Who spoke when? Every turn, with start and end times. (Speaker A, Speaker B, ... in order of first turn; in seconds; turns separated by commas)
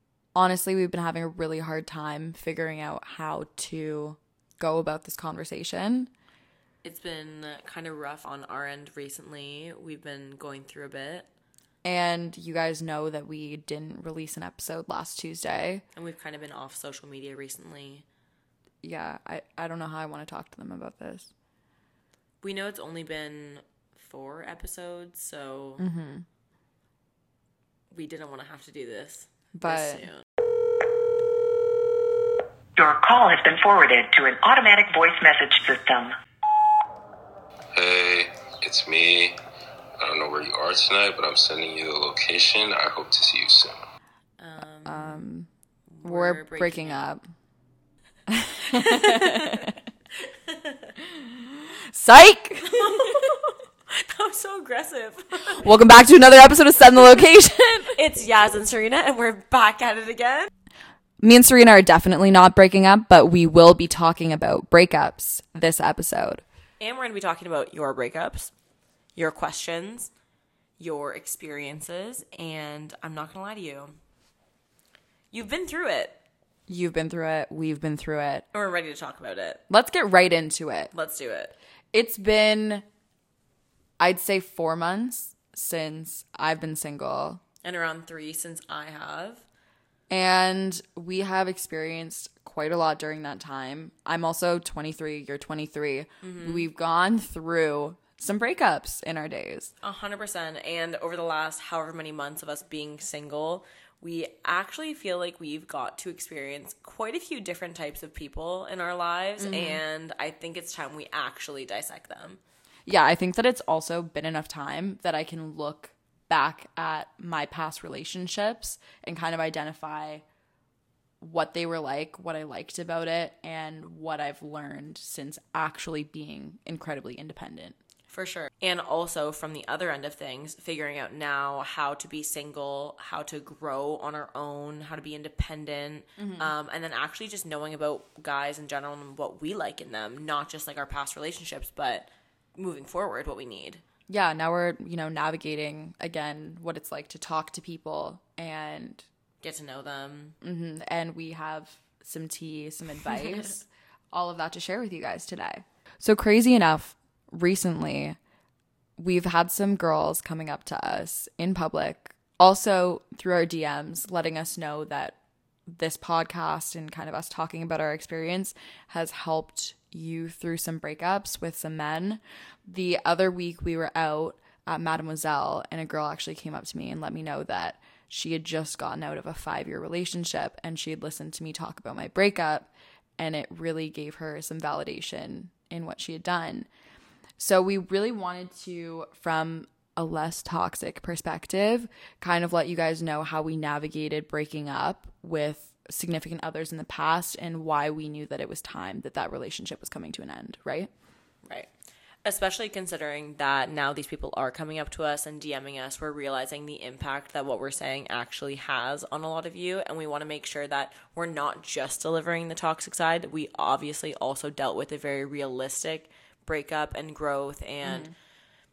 Speaker A: 0.3-6.1, Speaker B: 6.8-11.3, Speaker A: 11.8-15.8, Speaker B: 15.9-18.0, Speaker A: 18.8-21.3, Speaker B: 22.4-25.8, Speaker A: 25.8-26.2, Speaker B: 27.9-30.3, Speaker A: 29.5-30.1, Speaker C: 32.8-36.1, Speaker D: 37.7-39.4, Speaker D: 40.0-43.8, Speaker B: 44.4-45.3, Speaker A: 44.9-45.5, Speaker B: 45.9-47.1, Speaker A: 46.0-47.2, Speaker A: 48.3-49.7, Speaker B: 48.7-51.0, Speaker A: 51.1-53.3, Speaker B: 52.6-55.7, Speaker A: 55.5-58.0, Speaker B: 57.9-60.5, Speaker A: 61.2-66.4, Speaker B: 66.8-68.5, Speaker B: 69.2-70.1, Speaker B: 70.8-74.0, Speaker B: 75.3-76.2, Speaker A: 76.7-78.5, Speaker B: 78.5-79.6, Speaker A: 79.7-80.9, Speaker B: 80.9-81.5, Speaker A: 81.9-82.8, Speaker A: 84.0-87.4, Speaker B: 87.6-89.4, Speaker A: 90.1-99.7, Speaker B: 96.2-96.7, Speaker B: 99.8-112.4, Speaker A: 109.4-109.8, Speaker A: 112.9-120.2, Speaker A: 121.2-127.8, Speaker B: 128.1-143.8, Speaker A: 136.2-136.5, Speaker A: 144.1-149.1, Speaker B: 149.4-150.4, Speaker A: 150.4-158.2, Speaker B: 153.1-153.5, Speaker A: 159.0-186.7, Speaker A: 187.4-200.9, Speaker B: 201.4-201.7, Speaker B: 202.2-218.1, Speaker A: 217.8-218.1